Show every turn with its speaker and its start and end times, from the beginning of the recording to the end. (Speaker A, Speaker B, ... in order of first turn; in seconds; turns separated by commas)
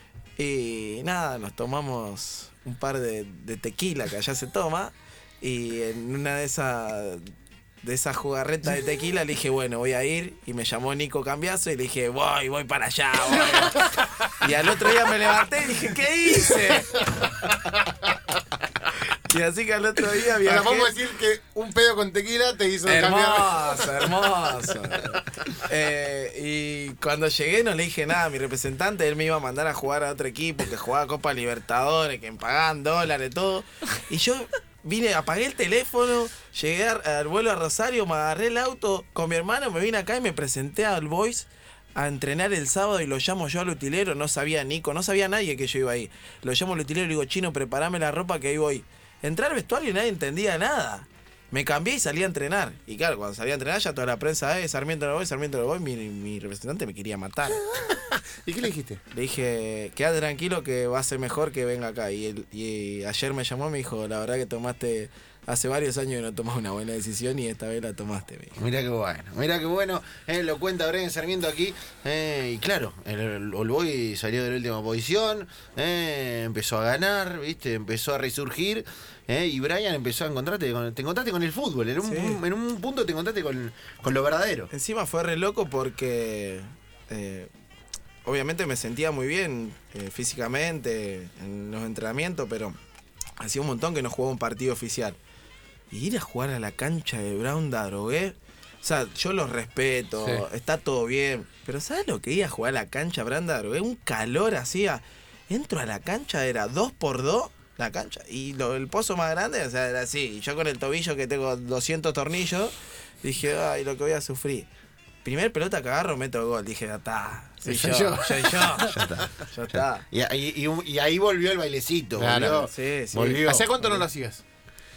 Speaker A: 0.4-17.1, Speaker A: 19.1-20.9, Speaker B: 20.4-24.0, Speaker A: 22.8-57.6, Speaker B: 57.8-59.0, Speaker A: 59.1-68.6, Speaker C: 68.6-84.7, Speaker A: 82.0-82.4, Speaker A: 84.7-87.5, Speaker A: 88.2-92.8, Speaker A: 93.4-95.2, Speaker A: 95.9-114.7, Speaker A: 115.2-120.0, Speaker B: 117.6-118.9, Speaker C: 118.8-123.6, Speaker B: 122.2-124.4, Speaker A: 122.7-124.0